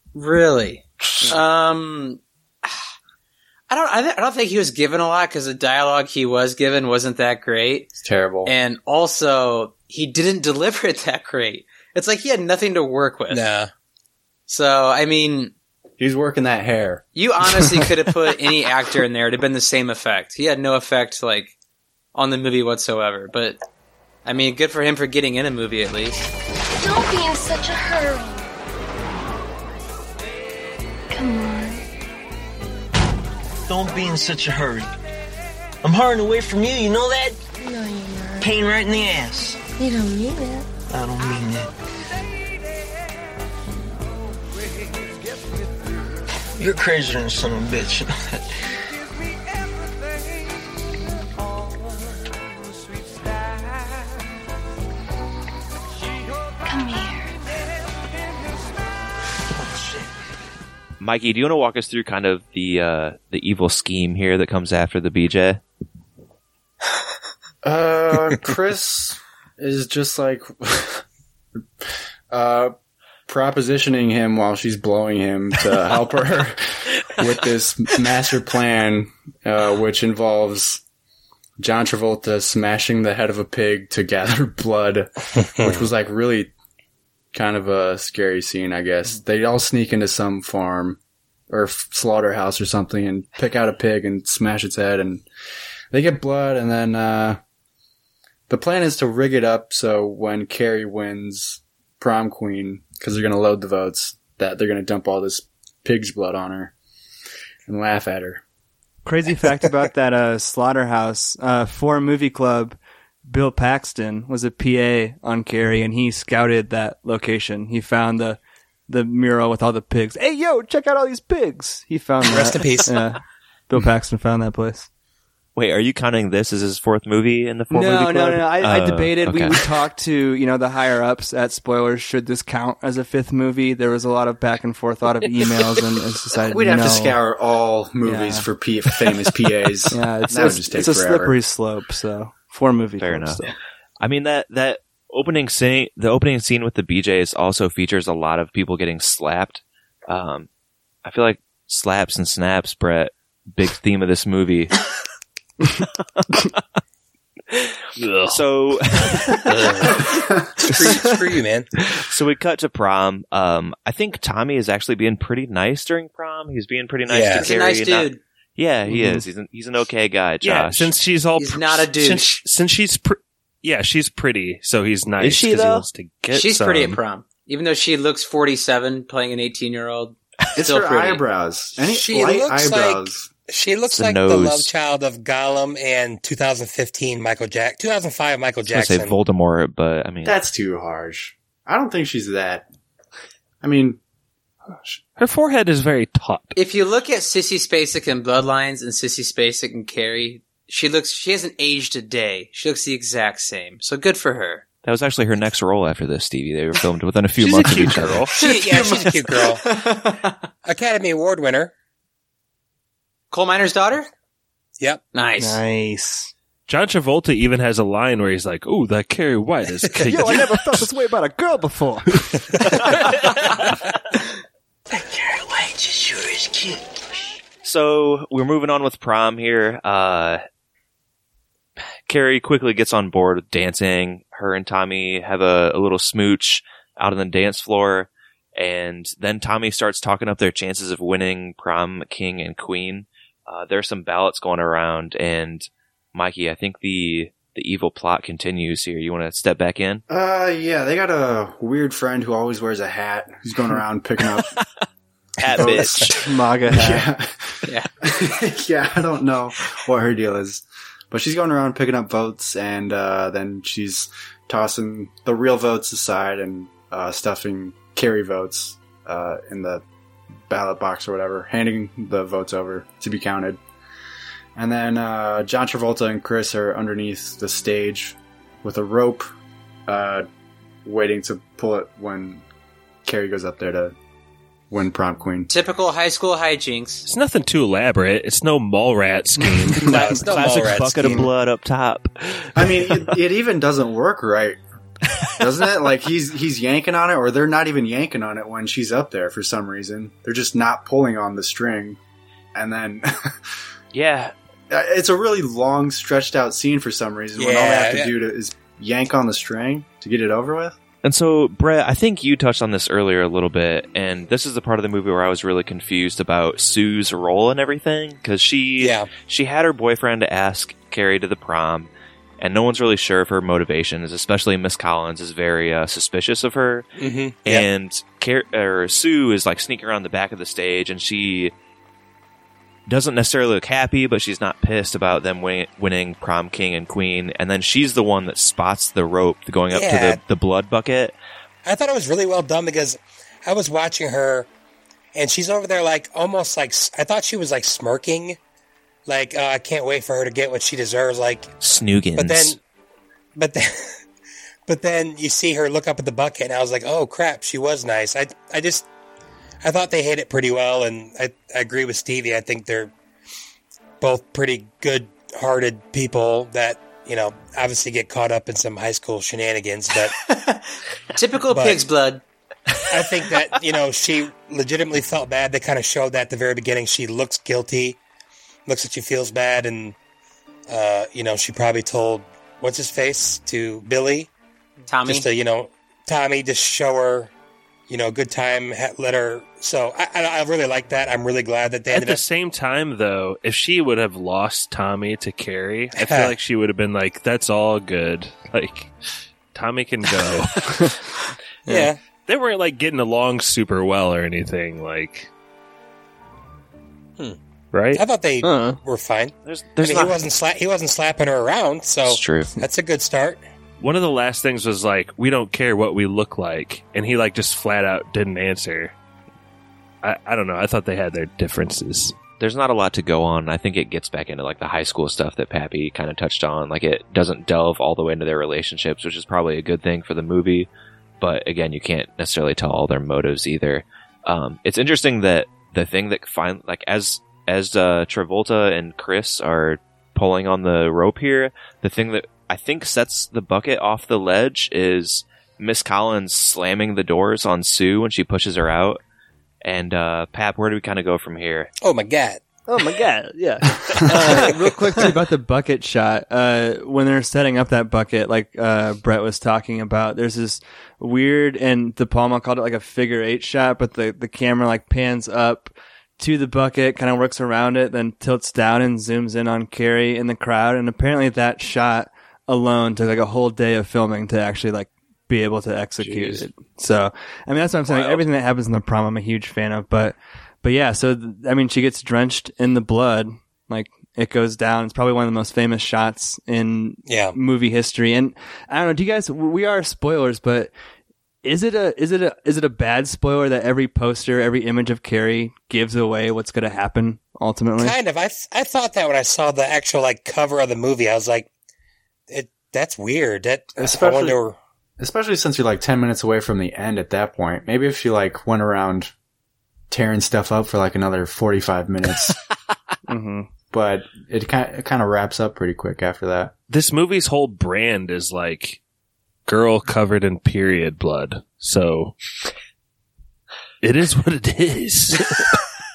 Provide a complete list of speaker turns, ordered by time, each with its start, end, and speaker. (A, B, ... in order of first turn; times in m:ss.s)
0:00.1-0:02.8 A
0:03.7-0:13.4 A
0:08.0-0:08.5 B
0:13.3-0:13.7 C
0:14.5-0:15.5 A
0:16.0-0:17.9 B
0:17.2-0:21.5 A
0:22.1-0:23.6 A
0:24.2-0:26.2 A
0:26.7-0:28.6 D
0:31.1-0:31.8 D
0:33.7-0:34.9 E
0:35.8-0:37.4 E
0:37.6-0:38.5 D
0:38.4-0:39.6 E
0:39.8-0:40.7 D
0:40.9-0:41.7 E
0:46.6-0:48.5 E
0:56.7-0:57.4 D
1:01.0-1:05.6 F
1:07.6-1:11.0 B
1:12.3-1:12.7 B
1:13.3-1:20.8 B
1:21.6-1:26.5 B
1:25.5-1:25.9 C
1:27.3-1:31.0 B
1:31.5-1:35.2 B
1:35.9-1:37.4 B
1:38.5-1:46.7 B
1:47.7-1:48.4 B
1:49.0-2:04.9 G
2:02.3-2:03.0 C
2:05.6-2:09.6 F
2:07.7-2:17.2 G
2:16.5-2:21.4 B
2:18.0-2:18.5 G
2:19.9-2:23.5 G
2:23.0-2:23.4 F
2:24.0-2:30.5 F
2:31.0-2:34.7 F
2:38.0-2:38.4 H
2:38.3-2:39.4 F
2:39.1-2:40.0 H
2:39.6-2:39.9 C
2:40.6-2:41.7 C
2:42.1-2:50.9 F
2:47.1-2:47.5 C
2:47.4-2:48.2 A
2:48.9-2:49.2 G
2:50.4-2:57.0 H
2:51.4-2:52.4 A
2:55.2-2:55.9 F
2:56.3-3:01.2 A
3:00.6-3:03.3 B
3:01.9-3:09.1 C
3:03.9-3:04.7 F
3:08.7-3:10.4 F
3:10.2-3:12.7 B
3:13.6-3:14.0 B
3:14.7-3:16.6 H
3:16.6-3:24.7 A
3:24.8-3:28.3 F
3:27.4-3:28.4 H
3:28.4-3:30.4 A
3:28.4-3:29.6 C
3:30.7-3:31.7 C
3:33.3-3:34.1 A
3:35.1-3:35.6 A
3:35.4-3:36.3 G
3:36.7-3:40.9 H
3:40.0-3:42.9 G
3:45.0-3:46.8 E
3:47.6-3:50.4 F
3:52.1-4:10.0 F
4:10.1-4:14.5 B
4:15.4-4:16.2 F
4:15.5-4:29.8 B
4:16.1-4:17.1 G
4:30.5-4:33.6 B
4:34.6-4:39.3 B
4:39.9-4:40.3 B
4:40.8-4:42.4 B
4:43.0-4:44.0 B
4:44.7-4:45.5 B
4:45.5-4:47.1 A
4:47.1-4:50.0 H
4:49.8-4:51.3 C
4:49.9-4:52.5 F
4:52.6-4:54.6 B
4:55.3-5:02.0 B
5:02.5-5:03.4 B
5:03.9-5:04.4 F
5:04.7-5:10.8 B
5:07.4-5:08.1 C
5:11.0-5:26.9 F
5:18.8-5:19.1 C
5:27.0-5:27.7 C
5:27.4-5:31.5 F
5:32.9-5:41.2 F
5:39.7-5:40.2 C
5:41.6-5:44.5 C
5:45.2-5:48.4 C
5:49.1-5:51.5 C
5:51.6-5:52.6 F
5:52.2-5:52.6 C
5:53.4-5:54.0 C
5:54.7-5:58.9 C
5:59.6-6:02.9 C
6:04.0-6:10.2 C
6:10.2-6:10.6 A
6:11.2-6:12.2 A
6:11.5-6:11.9 C
6:12.9-6:18.0 C
6:18.7-6:20.0 C
6:20.7-6:24.3 C
6:24.9-6:25.3 A
6:25.0-6:27.3 C
6:27.9-6:32.2 C
6:31.9-6:38.9 H
6:36.0-6:36.3 C
6:39.5-6:41.0 H
6:41.7-6:42.0 C
6:42.3-6:45.3 H
6:47.7-6:48.0 H
6:47.9-6:53.4 C
6:48.4-6:48.8 G
6:49.4-6:50.2 F
6:52.1-6:52.5 F
6:53.8-6:58.9 H
7:00.0-7:02.2 H
7:02.4-7:10.7 F
7:11.2-7:29.0 F
7:29.6-7:31.7 F
7:31.8-7:32.4 C
7:32.7-8:10.7 G
7:56.0-7:56.5 B
8:07.1-8:07.4 C
8:11.4-8:18.0 G
8:17.8-8:21.5 C
8:22.3-8:24.6 C
8:23.8-8:24.4 B
8:25.0-8:29.1 B
8:29.9-8:32.4 B
8:33.1-8:33.5 G
8:33.7-8:36.5 B
8:36.7-8:38.8 H
8:39.5-8:42.1 H
8:43.8-8:45.6 H